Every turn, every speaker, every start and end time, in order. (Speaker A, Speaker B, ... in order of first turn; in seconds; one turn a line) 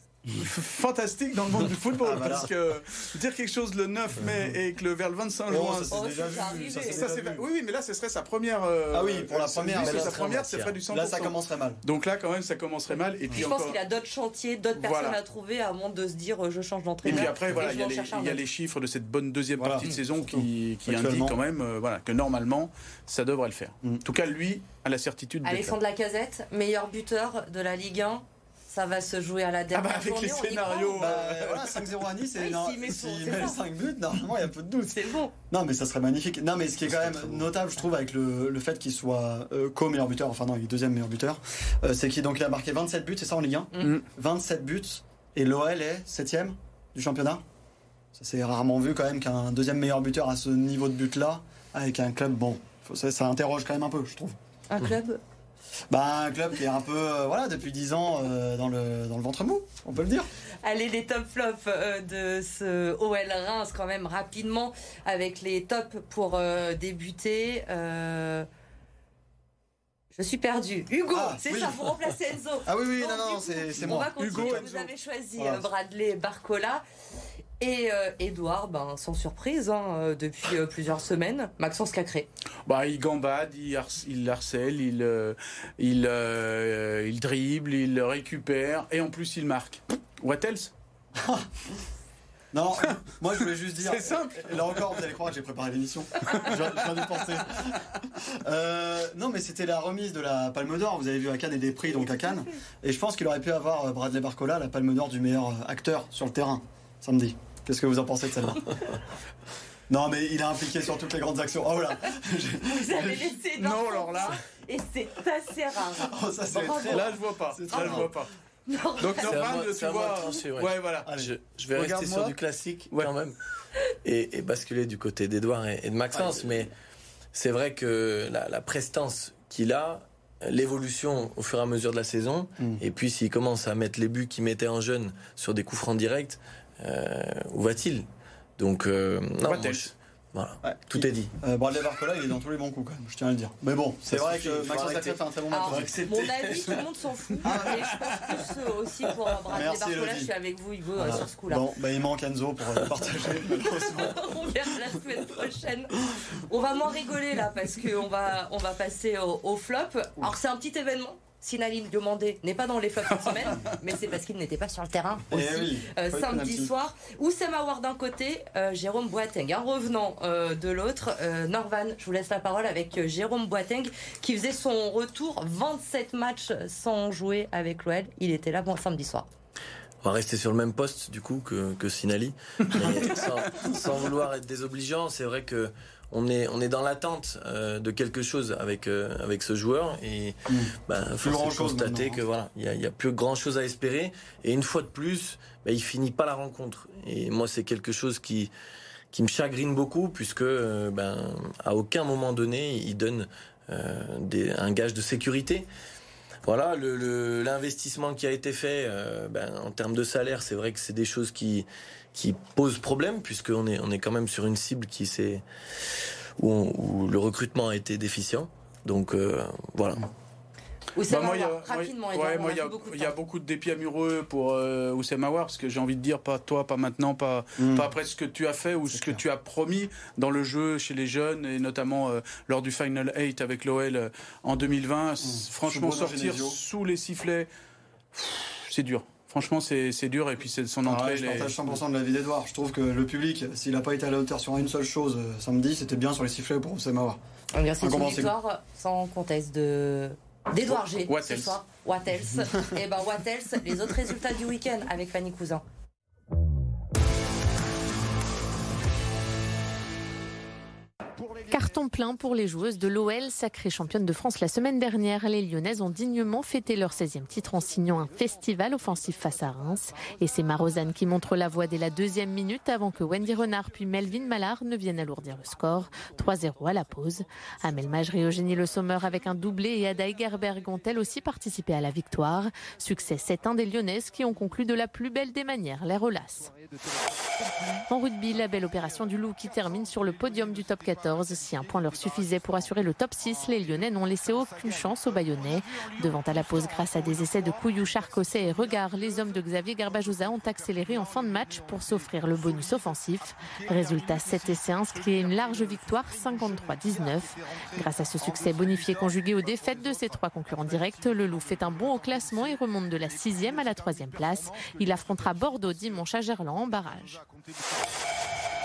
Speaker A: 0.3-13.8
Speaker B: 2.0-2.5
Speaker B: 5.5-7.4
Speaker C: 5.9-7.0
Speaker B: 8.9-10.2
Speaker D: 9.8-10.8
Speaker B: 10.9-11.8
Speaker C: 13.3-18.4
Speaker A: 14.8-15.2
Speaker A: 17.0-25.7
Speaker B: 17.0-17.7
Speaker B: 19.6-21.4
Speaker C: 25.4-31.2
Speaker A: 29.7-31.8
Speaker B: 30.9-47.4
Speaker C: 32.4-33.6
Speaker C: 34.9-35.3
Speaker D: 36.9-37.3
Speaker B: 48.1-54.4
Speaker C: 54.7-55.2
Speaker B: 55.9-60.3
Speaker C: 60.6-68.5
Speaker C: 70.1-76.8
Speaker B: 71.1-71.9
Speaker B: 72.7-75.7
Speaker A: 73.8-74.7
Speaker C: 77.6-82.3
Speaker A: 82.7-90.7
Speaker B: 91.1-91.7
Speaker B: 92.5-108.9
Speaker A: 93.8-94.8
Speaker B: 109.9-113.4
Speaker C: 112.7-117.1
Speaker A: 113.6-114.4
Speaker B: 116.0-118.1
Speaker A: 116.9-118.3
Speaker C: 117.7-118.0
Speaker C: 118.7-119.4
Speaker A: 119.0-121.1
Speaker D: 119.2-123.3
Speaker B: 121.0-121.3
Speaker A: 121.7-122.3
Speaker D: 124.0-126.7
Speaker B: 126.1-126.6
Speaker D: 127.3-138.1
Speaker D: 138.6-141.3
Speaker A: 139.4-139.9
Speaker B: 140.6-146.5
Speaker D: 144.1-146.8
Speaker C: 145.5-151.7
Speaker B: 147.4-148.0
Speaker B: 149.5-150.3
Speaker B: 150.9-154.3
Speaker C: 153.6-179.3
Speaker B: 165.3-166.7
Speaker D: 180.0-198.5
Speaker B: 190.5-192.2
Speaker D: 199.1-205.7
Speaker D: 206.4-215.4
Speaker D: 216.4-220.1
Speaker C: 220.9-223.1
Speaker A: 221.1-237.5
Speaker B: 227.6-227.9
Speaker B: 228.9-229.2
Speaker B: 235.2-236.6
Speaker A: 238.1-241.8
Speaker B: 240.8-247.2
Speaker C: 247.5-255.6
Speaker B: 247.8-248.3
Speaker A: 251.1-251.5
Speaker E: 261.3-286.5
Speaker E: 287.9-317.2